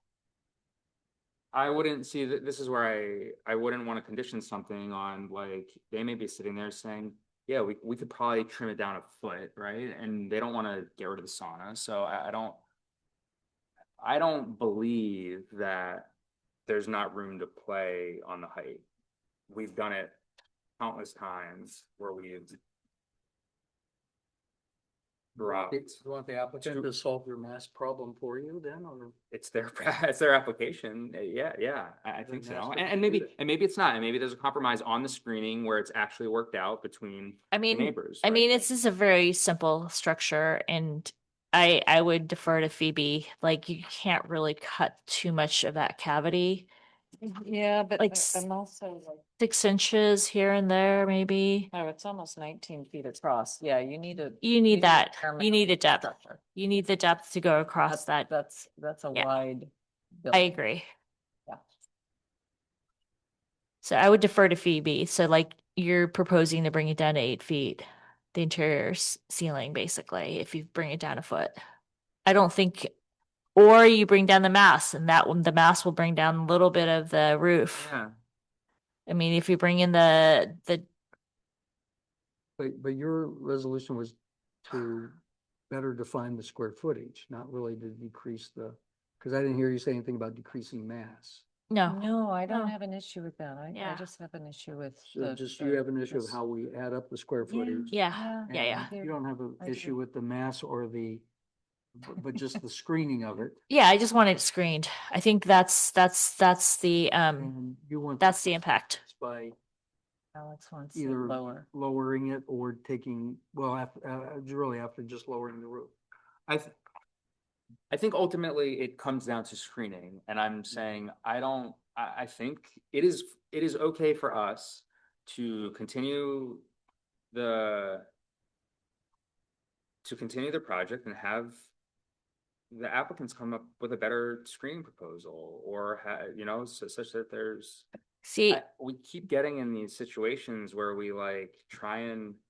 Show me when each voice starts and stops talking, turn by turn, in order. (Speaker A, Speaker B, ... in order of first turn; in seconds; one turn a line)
Speaker A: 1.5-12.6
Speaker A: 14.0-16.1
Speaker A: 16.7-18.8
Speaker A: 19.5-20.2
Speaker A: 20.8-22.6
Speaker A: 25.4-26.0
Speaker B: 25.5-29.1
Speaker A: 26.6-26.9
Speaker A: 29.3-38.5
Speaker B: 32.2-33.3
Speaker C: 37.5-46.7
Speaker D: 47.2-49.2
Speaker C: 48.0-48.4
Speaker C: 49.4-51.7
Speaker D: 51.7-56.4
Speaker C: 54.4-58.3
Speaker D: 57.9-60.5
Speaker C: 60.3-60.9
Speaker C: 63.8-71.5
Speaker C: 72.2-72.9
Speaker C: 73.5-77.9
Speaker A: 77.7-78.1
Speaker C: 79.1-80.8
Speaker B: 82.6-85.2
Speaker B: 85.7-91.4
Speaker C: 91.7-92.7
Speaker D: 91.8-96.4
Speaker C: 93.7-94.0
Speaker B: 95.0-98.0
Speaker D: 97.5-100.0
Speaker C: 97.9-98.9
Speaker B: 98.5-101.2
Speaker B: 102.0-103.6
Speaker C: 103.7-107.5
Speaker B: 107.4-108.4
Speaker C: 108.2-109.0
Speaker B: 109.0-109.6
Speaker D: 110.3-111.7
Speaker B: 110.9-115.9
Speaker A: 116.5-116.8
Speaker A: 117.9-126.7
Speaker A: 127.3-128.1
Speaker A: 130.0-131.7
Speaker A: 132.7-137.9
Speaker C: 138.2-138.6
Speaker A: 138.5-142.4